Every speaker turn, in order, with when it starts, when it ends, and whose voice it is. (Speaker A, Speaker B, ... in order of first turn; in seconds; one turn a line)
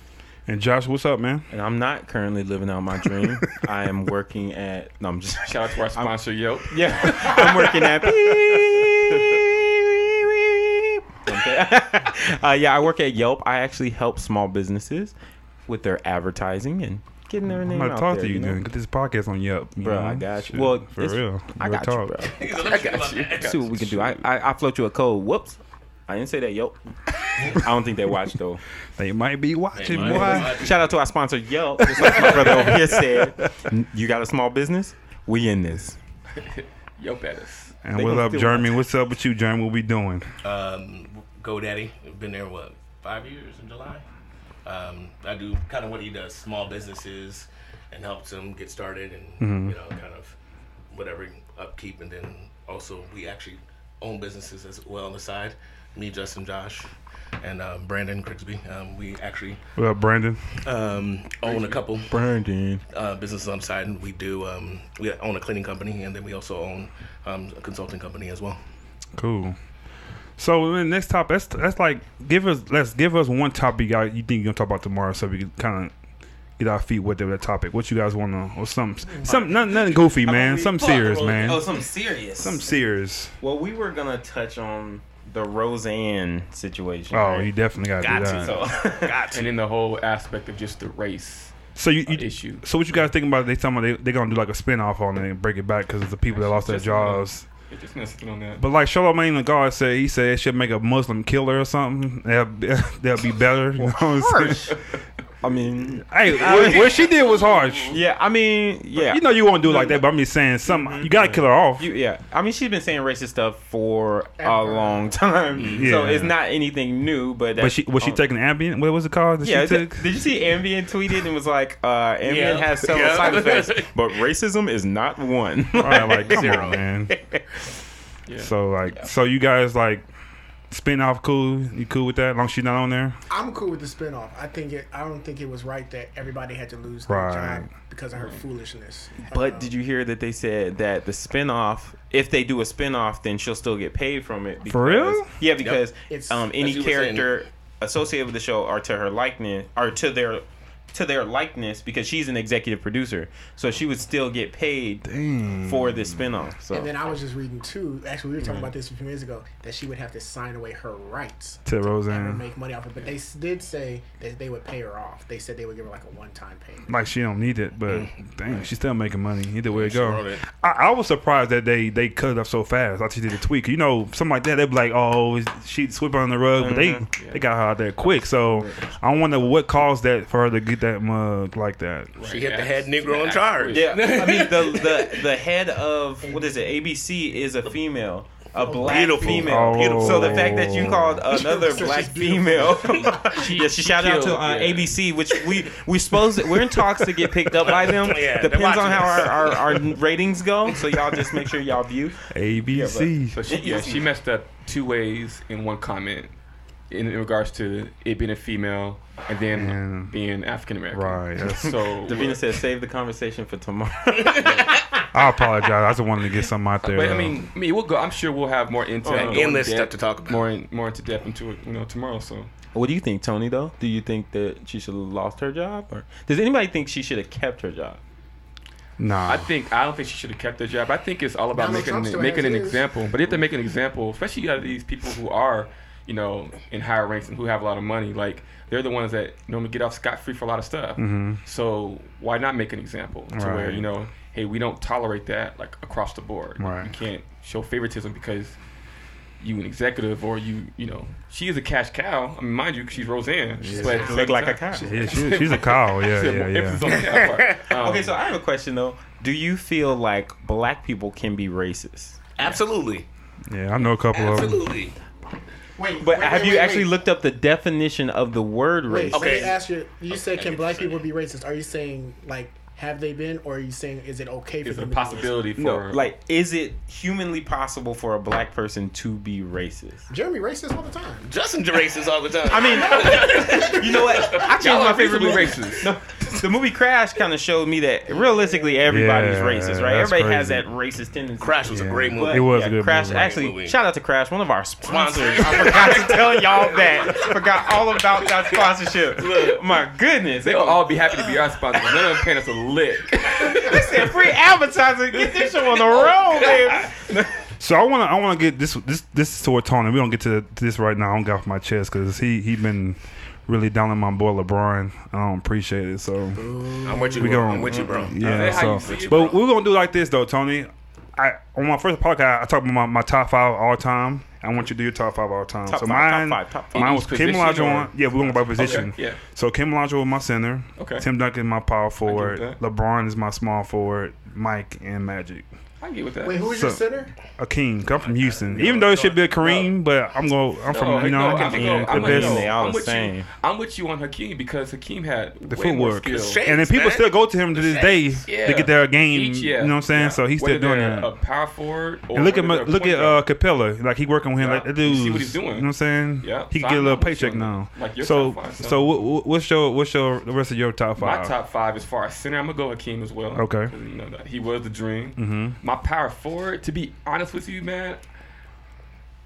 Speaker A: 0.5-1.5
Speaker B: 1.5-6.2
Speaker C: 5.5-7.8
Speaker B: 6.7-15.1
Speaker C: 9.1-9.4
Speaker B: 15.7-18.6
Speaker A: 17.5-22.1
Speaker B: 19.8-22.4
Speaker D: 22.3-23.6
Speaker C: 22.5-24.2
Speaker B: 23.4-26.8
Speaker B: 27.5-28.6
Speaker A: 29.0-30.7
Speaker D: 29.8-31.0
Speaker B: 29.9-36.0
Speaker A: 31.8-33.5
Speaker D: 32.2-32.7
Speaker C: 36.4-37.8
Speaker A: 37.8-40.3
Speaker B: 37.9-38.8
Speaker D: 40.4-44.0
Speaker D: 44.6-50.3
Speaker A: 49.4-49.8
Speaker D: 50.9-56.9
Speaker D: 57.4-59.6
Speaker A: 59.8-60.6
Speaker D: 60.6-62.1
Speaker C: 61.5-61.8
Speaker B: 62.1-62.8
Speaker D: 62.9-68.6
Speaker A: 69.2-69.6
Speaker A: 70.4-75.9
Speaker A: 76.6-81.7
Speaker D: 79.2-80.1
Speaker B: 80.2-82.6
Speaker D: 80.8-81.6
Speaker A: 82.4-83.3
Speaker B: 83.4-87.5
Speaker A: 87.1-88.6
Speaker D: 88.0-89.5
Speaker B: 88.0-89.3
Speaker C: 89.3-91.6
Speaker A: 91.8-97.4
Speaker C: 92.1-92.6
Speaker C: 96.3-98.6
Speaker A: 98.6-104.8
Speaker B: 103.8-104.8
Speaker B: 105.4-107.0
Speaker A: 106.1-108.0
Speaker C: 107.0-107.5
Speaker B: 107.9-110.0
Speaker A: 109.0-111.9
Speaker B: 110.6-118.2
Speaker E: 114.4-115.1
Speaker D: 115.5-116.0
Speaker A: 115.8-116.4
Speaker A: 117.6-120.2
Speaker B: 119.4-127.4
Speaker D: 122.2-123.9
Speaker A: 125.8-127.1
Speaker D: 125.8-126.8
Speaker A: 128.4-130.1
Speaker A: 130.7-133.2
Speaker E: 133.3-139.7
Speaker A: 137.1-137.7
Speaker C: 138.1-138.4
Speaker B: 139.2-155.1
Speaker A: 144.7-145.4
Speaker D: 145.6-145.8
Speaker E: 146.1-146.5
Speaker D: 146.6-147.4
Speaker A: 155.1-156.2
Speaker B: 155.7-157.0
Speaker E: 156.7-166.9
Speaker A: 161.7-162.5
Speaker A: 166.9-182.1
Speaker D: 167.9-168.7
Speaker D: 169.7-170.4
Speaker B: 176.6-177.1
Speaker C: 177.2-177.4
Speaker C: 182.2-184.1
Speaker D: 182.2-185.3
Speaker B: 183.7-204.1
Speaker E: 188.6-189.3
Speaker D: 188.8-190.9
Speaker A: 189.3-191.2
Speaker E: 191.3-193.3
Speaker C: 193.3-194.9
Speaker D: 197.5-199.9
Speaker D: 200.7-201.3
Speaker A: 202.3-203.4
Speaker C: 203.3-206.3
Speaker C: 206.9-212.4
Speaker A: 209.5-210.1
Speaker A: 210.9-211.8
Speaker B: 212.0-214.8
Speaker D: 214.2-214.8
Speaker C: 214.4-214.7
Speaker A: 215.1-217.4
Speaker C: 216.8-222.5
Speaker B: 219.0-219.6
Speaker D: 219.1-220.5
Speaker B: 222.7-228.0
Speaker A: 229.0-229.5
Speaker C: 229.3-248.6
Speaker E: 231.6-232.8
Speaker A: 241.0-241.4
Speaker A: 243.3-243.9
Speaker A: 246.6-246.9
Speaker C: 249.4-258.2
Speaker A: 253.6-254.1
Speaker B: 253.8-255.1
Speaker E: 254.8-255.2
Speaker A: 254.8-256.9
Speaker D: 256.8-257.7
Speaker B: 257.8-262.2
Speaker D: 262.4-263.1
Speaker A: 263.5-264.6
Speaker D: 264.1-264.9
Speaker E: 265.8-267.0
Speaker B: 266.0-269.5
Speaker E: 268.9-275.4
Speaker D: 269.1-269.6
Speaker D: 270.1-271.0
Speaker C: 274.6-276.1
Speaker B: 275.6-280.1
Speaker E: 280.1-281.3
Speaker D: 281.2-284.5
Speaker B: 282.4-301.0
Speaker C: 283.2-285.9
Speaker A: 288.9-290.6
Speaker D: 291.4-293.8
Speaker A: 291.7-293.4
Speaker D: 294.8-297.4
Speaker C: 295.6-296.1
Speaker C: 299.1-299.7
Speaker C: 300.4-304.2
Speaker B: 303.4-306.9
Speaker C: 305.3-307.3
Speaker A: 307.6-316.4
Speaker E: 316.4-317.4
Speaker D: 316.8-319.4
Speaker A: 317.2-335.5
Speaker B: 317.7-318.1
Speaker C: 318.2-319.4
Speaker B: 325.7-327.0
Speaker C: 326.8-329.2
Speaker C: 330.8-331.1
Speaker C: 332.1-332.6
Speaker C: 335.8-336.5
Speaker E: 336.2-337.1
Speaker A: 336.5-336.8
Speaker A: 337.4-342.6
Speaker D: 337.9-339.8
Speaker C: 340.7-346.4
Speaker D: 340.9-341.8
Speaker B: 341.1-343.3
Speaker A: 345.5-351.1
Speaker D: 346.0-348.3
Speaker C: 348.3-353.2
Speaker A: 352.1-361.3
Speaker C: 354.4-355.7
Speaker C: 356.2-358.9
Speaker C: 361.0-368.0
Speaker A: 363.3-363.7
Speaker A: 365.2-365.6